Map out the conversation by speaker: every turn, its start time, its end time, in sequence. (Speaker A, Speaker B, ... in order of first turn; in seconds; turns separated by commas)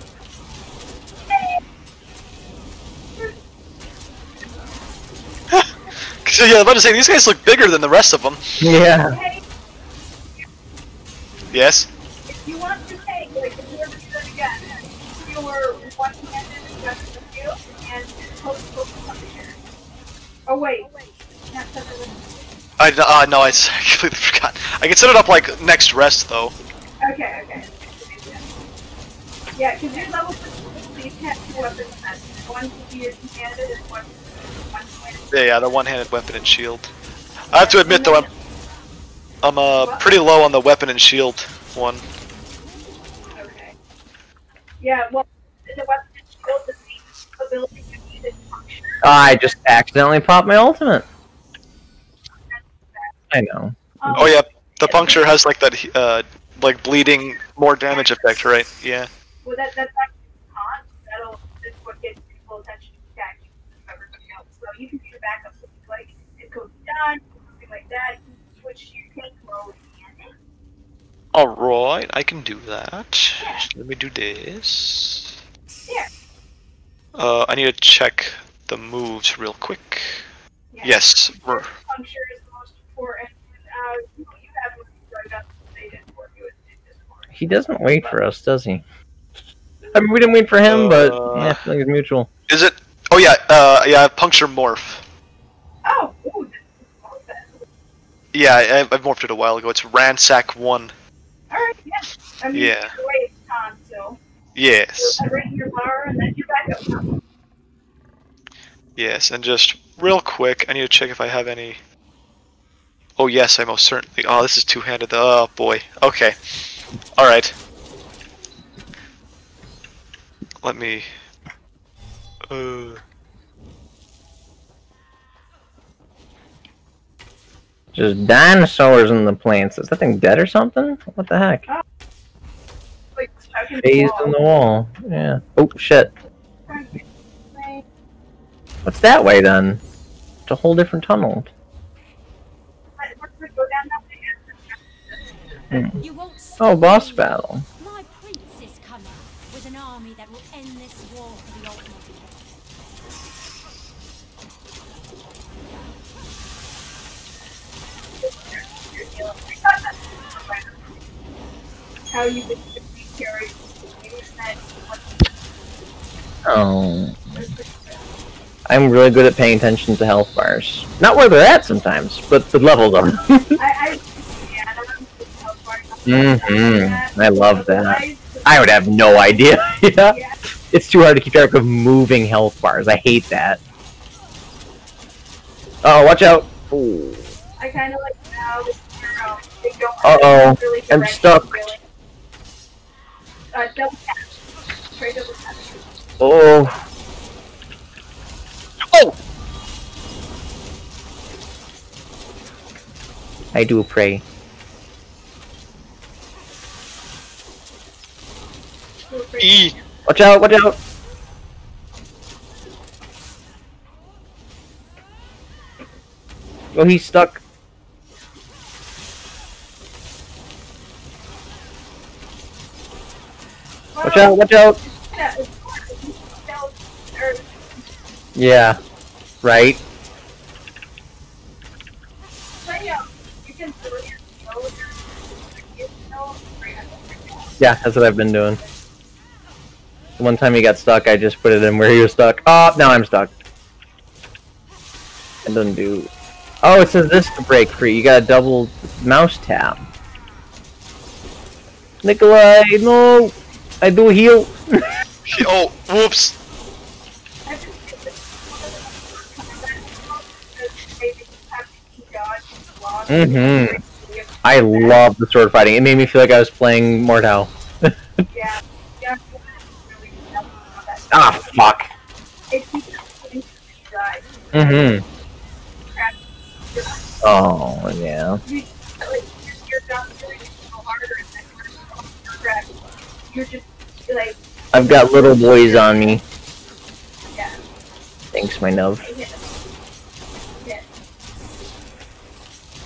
Speaker A: 1.3-1.6, Speaker B: 5.5-8.6, Speaker C: 8.6-9.2, Speaker A: 9.1-9.4, Speaker B: 11.5-11.9, Speaker A: 12.3-19.5, Speaker A: 20.5-20.9, Speaker A: 21.5-22.3, Speaker B: 22.8-26.6, Speaker A: 27.0-28.4, Speaker A: 29.5-35.8, Speaker B: 35.3-36.9, Speaker B: 37.5-38.3, Speaker A: 37.5-38.3, Speaker B: 39.4-42.0, Speaker A: 39.7-40.1, Speaker A: 43.3-43.7, Speaker A: 44.8-49.0, Speaker C: 49.0-51.0, Speaker A: 52.5-53.1, Speaker C: 53.3-54.3, Speaker A: 54.0-55.3, Speaker B: 54.1-59.1, Speaker A: 57.9-58.3, Speaker A: 59.4-70.3, Speaker B: 71.3-75.3, Speaker A: 73.4-73.7, Speaker B: 77.2-80.2, Speaker A: 80.7-88.2, Speaker B: 80.8-81.7, Speaker C: 87.3-88.8, Speaker C: 89.9-92.3, Speaker B: 90.7-91.6, Speaker B: 92.5-95.0, Speaker A: 95.8-97.6, Speaker B: 98.3-100.9, Speaker A: 101.5-104.2, Speaker B: 102.5-102.9, Speaker B: 104.5-105.2, Speaker A: 105.0-107.1, Speaker B: 109.0-111.8, Speaker B: 113.2-116.3, Speaker B: 117.2-117.5, Speaker B: 120.6-121.1, Speaker B: 122.5-123.0, Speaker C: 127.9-131.7, Speaker A: 133.2-134.4, Speaker C: 133.8-136.1, Speaker A: 136.7-137.8, Speaker C: 138.8-139.8, Speaker C: 140.5-141.5, Speaker A: 143.0-145.9, Speaker C: 145.7-146.0, Speaker D: 146.0-152.5, Speaker C: 146.6-147.6, Speaker A: 158.2-160.9, Speaker A: 162.1-165.1, Speaker C: 166.4-167.2, Speaker A: 167.3-168.1, Speaker C: 168.7-173.6, Speaker A: 173.6-178.6, Speaker C: 176.1-180.2, Speaker A: 180.1-180.4, Speaker C: 180.7-183.6, Speaker C: 185.8-187.3, Speaker A: 187.6-191.8, Speaker C: 190.0-191.7, Speaker A: 193.5-195.8, Speaker C: 196.2-196.8, Speaker B: 198.9-199.2, Speaker C: 203.5-204.2, Speaker A: 209.1-209.8, Speaker B: 209.4-209.7, Speaker C: 210.1-210.8, Speaker C: 216.7-217.4, Speaker A: 223.9-227.8, Speaker C: 224.0-224.8, Speaker C: 228.3-228.8, Speaker C: 229.4-229.8, Speaker A: 232.6-237.6, Speaker C: 237.6-238.6, Speaker C: 240.2-243.3, Speaker C: 245.4-246.1, Speaker C: 246.6-249.8, Speaker C: 252.0-255.5, Speaker B: 255.2-256.4, Speaker A: 257.4-265.0, Speaker C: 263.1-263.8, Speaker C: 264.4-267.9, Speaker A: 268.3-271.7, Speaker C: 271.1-271.9, Speaker A: 272.5-274.2, Speaker C: 274.5-275.0, Speaker A: 275.9-277.0, Speaker C: 277.2-278.4, Speaker A: 278.4-282.7, Speaker A: 283.3-286.2, Speaker C: 284.7-286.2, Speaker A: 287.3-287.6, Speaker C: 288.3-289.1, Speaker A: 289.0-289.5